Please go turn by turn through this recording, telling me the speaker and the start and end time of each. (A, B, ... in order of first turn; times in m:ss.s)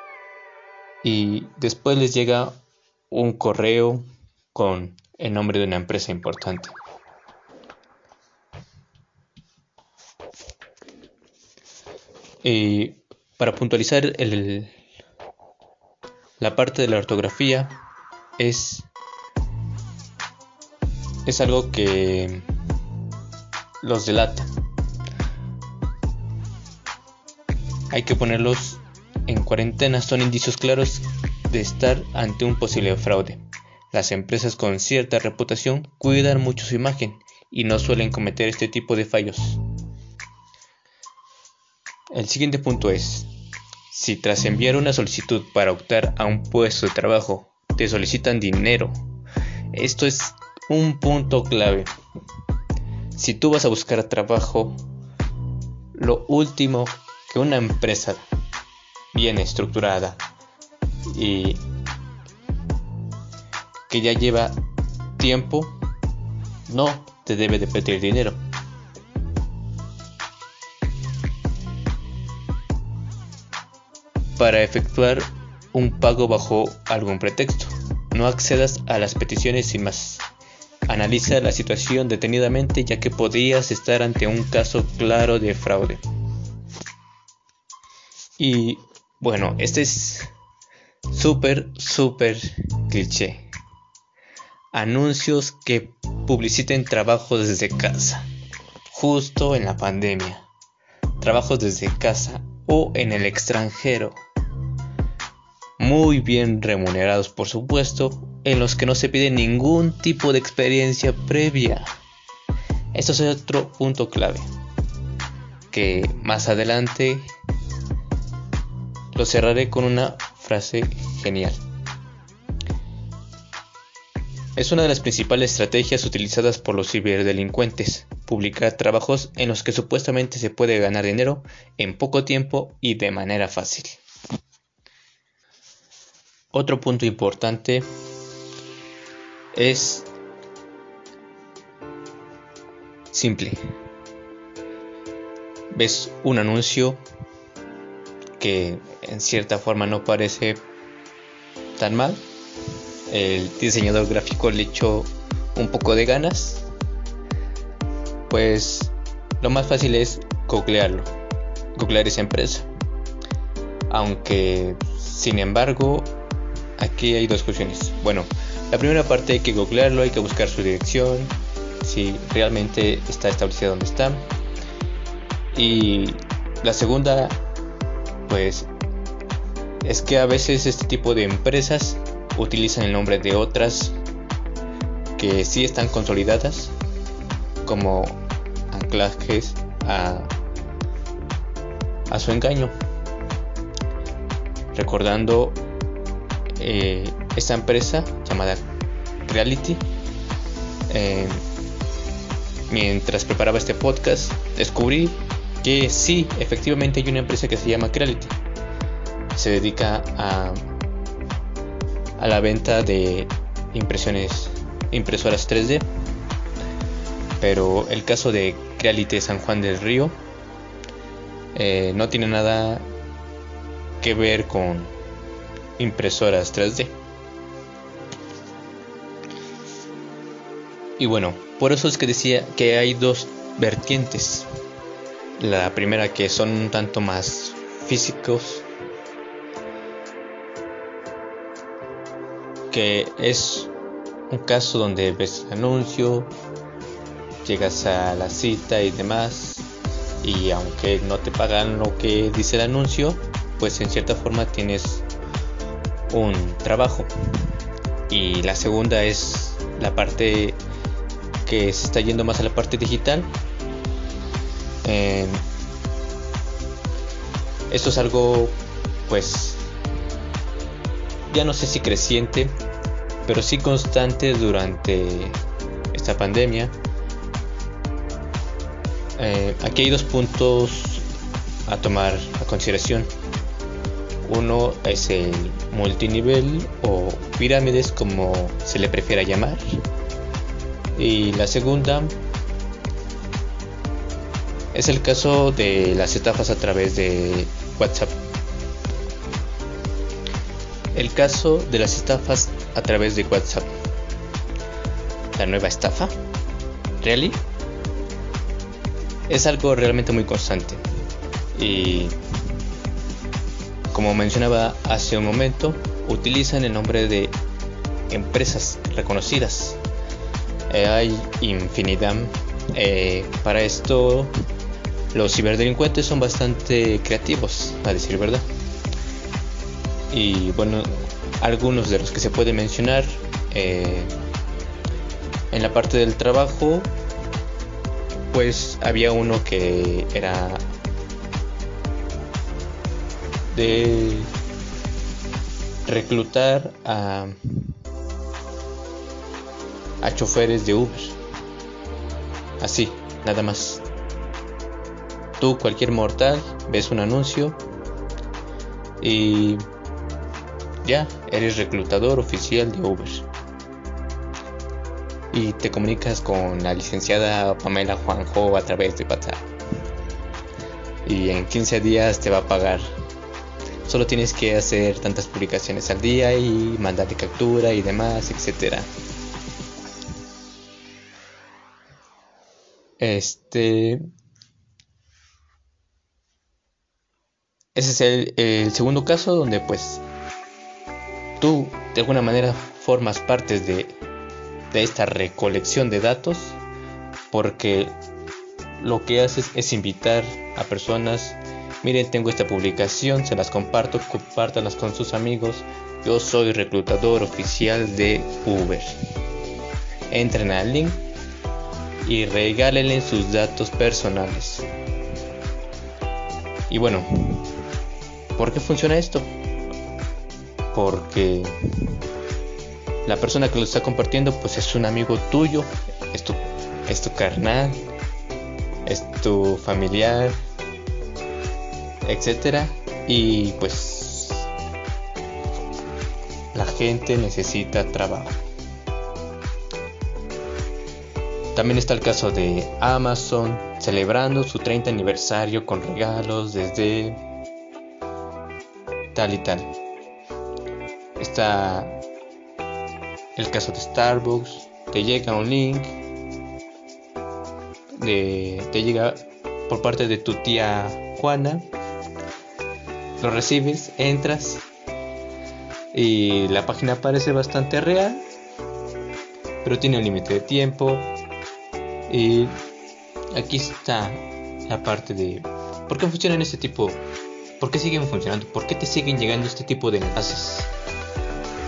0:01.0-0:02.6 A
0:03.1-0:06.8 A
0:12.4-0:14.7 A
0:16.4-0:17.8 A
0:18.4-0:18.9 A
0:21.2-0:22.4 A
0:23.8-0:24.5 A
0:27.9-0:39.6 A
0:42.1-0:43.3 A
0:43.9-0:48.9 A
0:49.7-0:51.9 A
0:53.2-0:54.8 A
0:55.9-0:58.3 A
0:59.1-1:00.2 A
1:01.1-1:01.6 A
1:03.9-1:04.6 A
1:05.2-1:05.8 A
1:06.7-1:08.4 A
1:14.4-1:20.2 A
1:20.9-1:26.0 A
1:28.4-1:30.3 A
1:31.1-1:33.5 A
1:34.7-1:38.2 A
1:38.9-1:40.5 A
1:41.2-1:44.2 A
1:45.8-1:51.9 A
1:52.9-1:54.5 A
1:55.7-1:57.3 A
1:59.1-2:01.6 A
2:04.6-2:14.0 A
2:16.5-2:17.8 A
2:19.5-2:20.1 A
2:23.1-2:23.6 A
2:25.7-2:27.0 A
2:28.4-2:30.6 A
2:31.8-2:32.2 A
2:33.1-2:36.6 A
2:38.3-2:41.1 A
2:41.7-2:42.7 A
2:43.9-2:46.1 A
2:46.8-2:54.2 A
2:55.5-2:57.4 A
2:58.3-2:58.7 A
2:59.8-3:04.0 A
3:05.2-3:06.7 A
3:07.6-3:10.3 A
3:12.1-3:12.7 A
3:14.7-3:15.6 A
3:16.6-3:18.6 A
3:19.2-3:19.8 A
3:20.9-3:21.4 A
3:22.7-3:28.4 A
3:29.3-3:30.6 A
3:32.2-3:35.8 A
3:37.4-3:40.1 A
3:41.5-3:42.8 A
3:44.0-3:44.9 A
3:45.8-3:46.9 A
3:51.0-3:54.5 A
3:55.4-3:58.6 A
4:02.7-4:03.7 A
4:04.3-4:06.3 A
4:07.4-4:09.7 A
4:10.2-4:15.0 A
4:16.1-4:17.1 A
4:18.1-4:20.6 A
4:21.4-4:23.3 A
4:24.8-4:25.4 A
4:27.7-4:28.5 A
4:29.1-4:29.7 A
4:31.3-4:32.5 A
4:33.2-4:35.4 A
4:35.9-4:36.7 A
4:39.2-4:41.0 A
4:41.7-4:43.1 A
4:44.2-4:49.6 A
4:51.0-4:52.1 A
4:54.7-4:58.1 A
5:00.9-5:03.7 A
5:05.3-5:06.1 A
5:07.0-5:07.4 A
5:09.3-5:10.8 A
5:11.5-5:12.1 A
5:13.9-5:17.4 A
5:18.1-5:19.8 A
5:20.7-5:24.3 A
5:25.1-5:28.4 A
5:30.1-5:34.1 A
5:35.5-5:36.9 A
5:38.3-5:40.6 A
5:43.5-5:44.3 A
5:45.9-5:47.7 A
5:50.0-5:51.2 A
5:52.6-5:53.8 A
5:55.4-5:57.6 A
5:59.0-5:59.6 A
6:00.8-6:03.2 A
6:05.3-6:09.4 A
6:11.0-6:12.9 A
6:13.8-6:18.9 A
6:23.0-6:24.0 A
6:27.7-6:30.0 A
6:31.4-6:33.9 A
6:34.7-6:36.6 A
6:37.3-6:38.0 A
6:38.8-6:49.0 A
6:50.1-6:51.0 A
6:52.0-6:54.7 A
6:56.7-6:57.4 A
6:58.4-6:59.3 A
7:00.7-7:01.5 A
7:03.0-7:07.8 A
7:08.8-7:10.4 A
7:12.0-7:14.5 A
7:16.5-7:18.4 A
7:21.5-7:27.2 A
7:29.1-7:29.7 A
7:31.2-7:32.0 A
7:33.4-7:36.0 A
7:38.0-7:41.6 A
7:43.2-7:44.6 A
7:45.9-7:48.2 A
7:49.6-7:51.1 A
7:52.1-7:52.6 A
7:53.3-7:57.0 A
7:57.6-8:00.7 A